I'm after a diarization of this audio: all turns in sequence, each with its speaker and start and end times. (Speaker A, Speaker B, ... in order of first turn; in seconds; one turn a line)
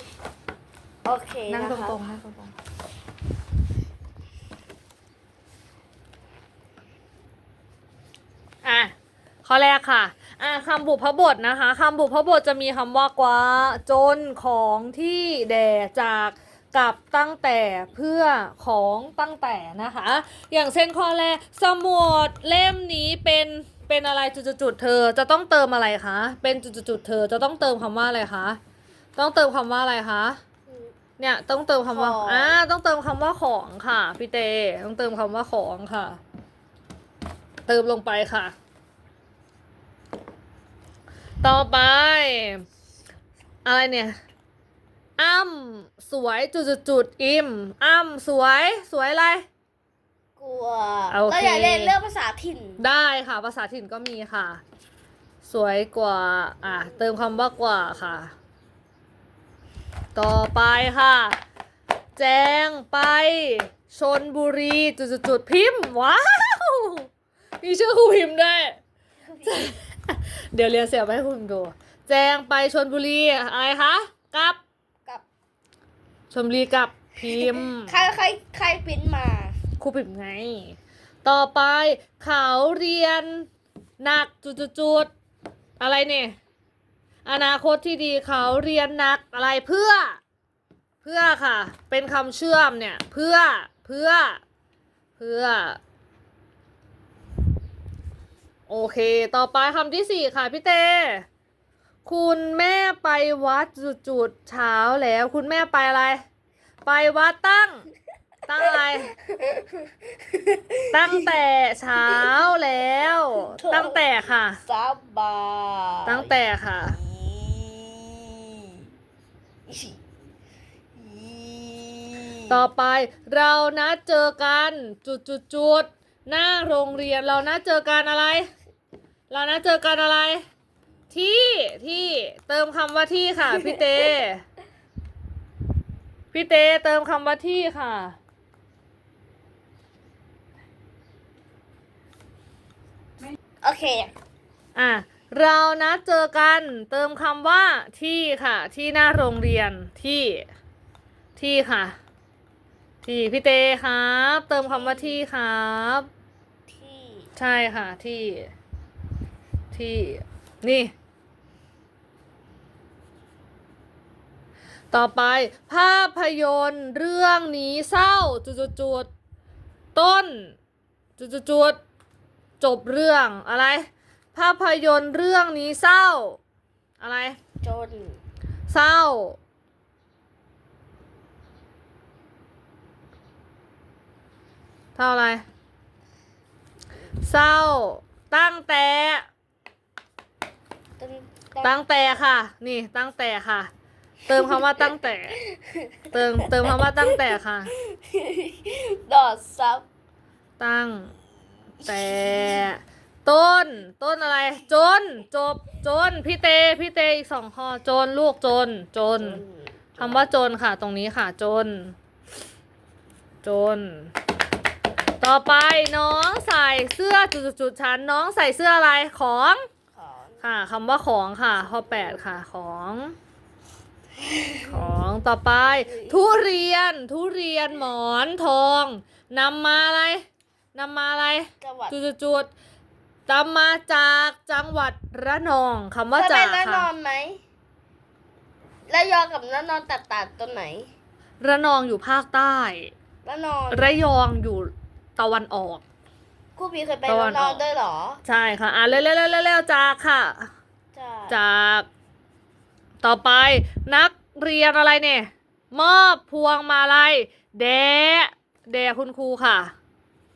Speaker A: 1.0-2.0
Speaker B: 1.5-2.5
Speaker B: 8.6-28.6
Speaker B: 29.2-30.4
Speaker B: 31.2-36.2
Speaker A: 31.9-32.6
Speaker B: 37.7-38.5
Speaker B: 41.4-42.6
Speaker B: 43.6-44.1
Speaker B: 45.2-49.5
Speaker A: 50.4-52.8
Speaker B: 51.1-52.0
Speaker B: 52.8-54.6
Speaker B: 55.4-58.3
Speaker B: 60.1-61.4
Speaker B: 62.2-67.1
Speaker B: 67.6-68.8
Speaker A: 69.3-69.7
Speaker B: 69.4-74.6
Speaker B: 76.3-78.0
Speaker A: 77.2-79.6
Speaker B: 79.8-83.5
Speaker B: 84.0-85.1
Speaker B: 85.8-86.4
Speaker B: 87.2-90.2
Speaker B: 91.0-94.4
Speaker B: 95.2-95.8
Speaker B: 98.7-101.3
Speaker B: 102.0-106.2
Speaker B: 106.8-107.9
Speaker B: 108.5-109.1
Speaker A: 109.2-111.3
Speaker B: 110.9-114.6
Speaker A: 112.0-112.3
Speaker A: 113.4-114.0
Speaker A: 114.6-116.4
Speaker B: 116.1-117.0
Speaker A: 116.9-118.9
Speaker A: 119.7-120.0
Speaker A: 121.0-122.7
Speaker B: 122.5-128.5
Speaker B: 129.3-130.4
Speaker B: 131.1-134.4
Speaker A: 133.6-134.1
Speaker B: 136.3-138.2
Speaker A: 143.6-144.1
Speaker B: 144.8-150.5
Speaker B: 151.4-152.0
Speaker B: 153.0-156.1
Speaker A: 154.7-155.2
Speaker A: 156.7-157.3
Speaker B: 157.4-158.5
Speaker B: 159.7-160.9
Speaker B: 164.9-169.1
Speaker B: 169.9-170.6
Speaker B: 171.2-171.8
Speaker B: 172.6-176.4
Speaker B: 177.0-177.4
Speaker A: 177.6-178.2
Speaker B: 178.7-179.4
Speaker B: 185.0-185.4
Speaker B: 187.2-189.3
Speaker A: 191.0-191.8
Speaker B: 191.6-193.7
Speaker B: 194.3-195.4
Speaker A: 194.3-194.8
Speaker A: 195.3-199.9
Speaker B: 196.1-197.7
Speaker B: 200.6-201.1
Speaker A: 201.8-202.7
Speaker B: 201.9-209.4
Speaker A: 209.2-210.3
Speaker B: 210.0-211.9
Speaker B: 213.4-214.1
Speaker B: 215.2-219.7
Speaker A: 219.9-220.4
Speaker B: 220.4-223.2
Speaker A: 221.7-222.2
Speaker A: 224.2-224.8
Speaker B: 224.7-232.5
Speaker A: 225.9-226.5
Speaker A: 231.6-232.0
Speaker B: 233.3-236.9
Speaker A: 236.2-237.4
Speaker A: 238.9-240.9
Speaker B: 241.4-242.9
Speaker A: 243.2-244.0
Speaker B: 243.7-245.8
Speaker A: 246.6-248.2
Speaker B: 247.1-247.7
Speaker B: 248.2-250.5
Speaker A: 250.9-251.4
Speaker B: 251.3-251.9
Speaker B: 253.0-259.7